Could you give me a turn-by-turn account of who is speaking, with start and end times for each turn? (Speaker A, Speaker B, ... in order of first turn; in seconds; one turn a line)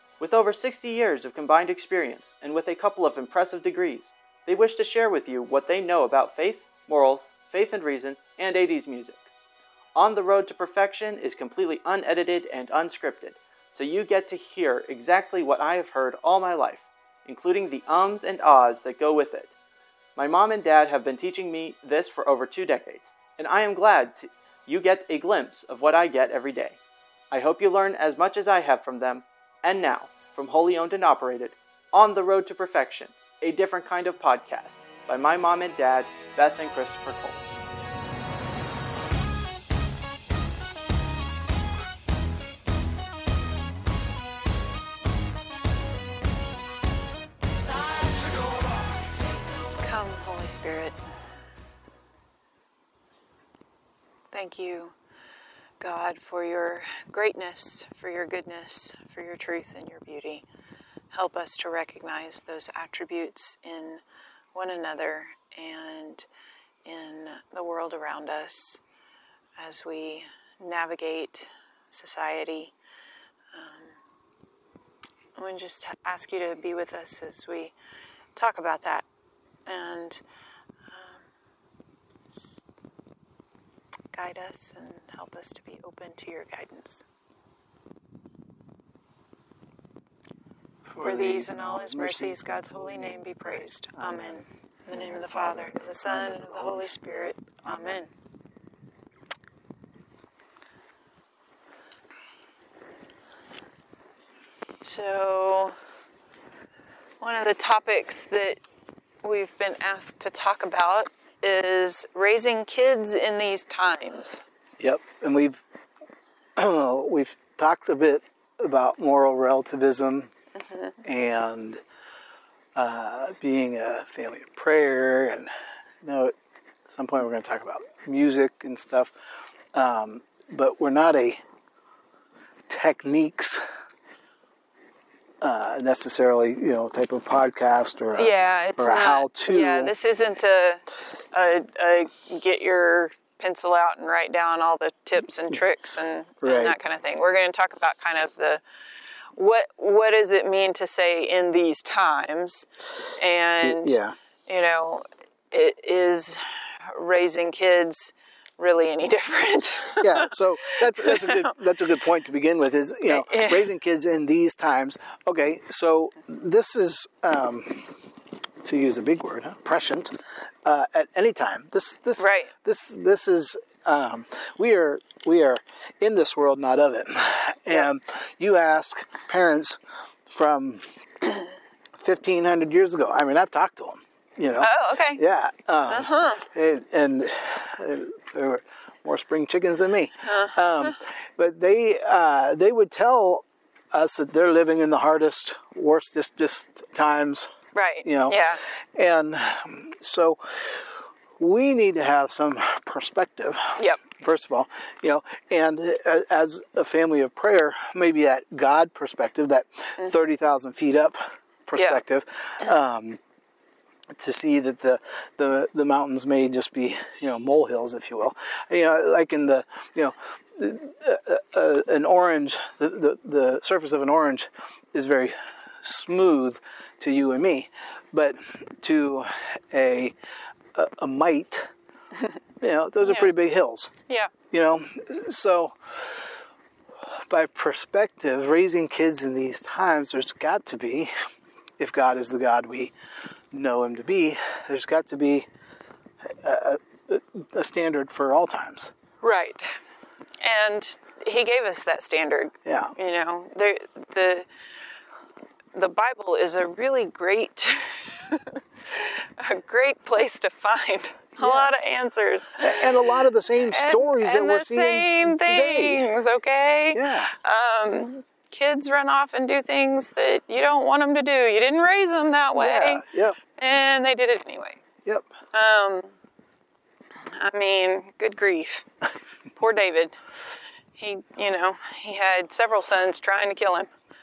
Speaker A: 0.2-9.3
Speaker A: 9.9-19.5
Speaker A: 20.2-26.8
Speaker A: 27.3-37.6
Speaker B: 49.8-51.0
Speaker B: 54.3-54.9
Speaker B: 55.8-60.4
Speaker B: 61.1-64.0
Speaker B: 64.5-66.3
Speaker B: 66.8-68.8
Speaker B: 69.6-72.7
Speaker B: 73.5-73.9
Speaker B: 75.3-77.7
Speaker B: 78.3-79.0
Speaker B: 79.7-80.2
Speaker B: 80.9-81.2
Speaker B: 82.3-82.6
Speaker B: 84.1-87.0
Speaker C: 90.9-97.0
Speaker B: 91.0-98.1
Speaker C: 97.6-98.0
Speaker B: 104.8-105.8
Speaker B: 107.2-108.6
Speaker B: 109.2-114.4
Speaker C: 114.8-115.6
Speaker C: 116.5-120.3
Speaker B: 120.6-121.0
Speaker C: 121.0-121.8
Speaker C: 122.7-126.3
Speaker C: 126.9-129.1
Speaker C: 129.7-131.4
Speaker C: 132.7-133.6
Speaker C: 135.4-139.9
Speaker B: 138.2-148.6
Speaker C: 146.4-146.8
Speaker B: 149.4-152.7
Speaker B: 153.2-161.5
Speaker C: 153.6-154.2
Speaker C: 160.0-168.0
Speaker B: 163.1-163.7
Speaker C: 168.6-170.1
Speaker C: 170.6-181.4
Speaker B: 172.2-172.5
Speaker C: 182.0-197.5
Speaker B: 184.6-185.2
Speaker B: 185.9-186.4
Speaker B: 190.3-190.9
Speaker B: 197.8-198.6
Speaker C: 198.0-198.4
Speaker C: 198.9-213.2
Speaker B: 211.8-212.0
Speaker C: 214.1-230.1
Speaker C: 230.7-231.7
Speaker C: 232.6-233.9
Speaker B: 233.0-233.3
Speaker C: 234.5-236.3
Speaker C: 237.3-241.1
Speaker C: 241.8-242.9
Speaker C: 243.5-245.5
Speaker C: 246.3-248.9
Speaker B: 249.2-249.8
Speaker B: 250.4-254.5
Speaker C: 252.7-252.9
Speaker B: 255.7-262.9
Speaker C: 261.4-261.7
Speaker C: 262.6-266.1
Speaker B: 263.7-273.0
Speaker C: 266.9-267.3
Speaker C: 272.6-273.4
Speaker B: 273.6-274.8
Speaker C: 275.1-275.3
Speaker B: 275.5-276.1
Speaker B: 277.3-278.9
Speaker B: 279.6-280.2
Speaker B: 281.0-283.9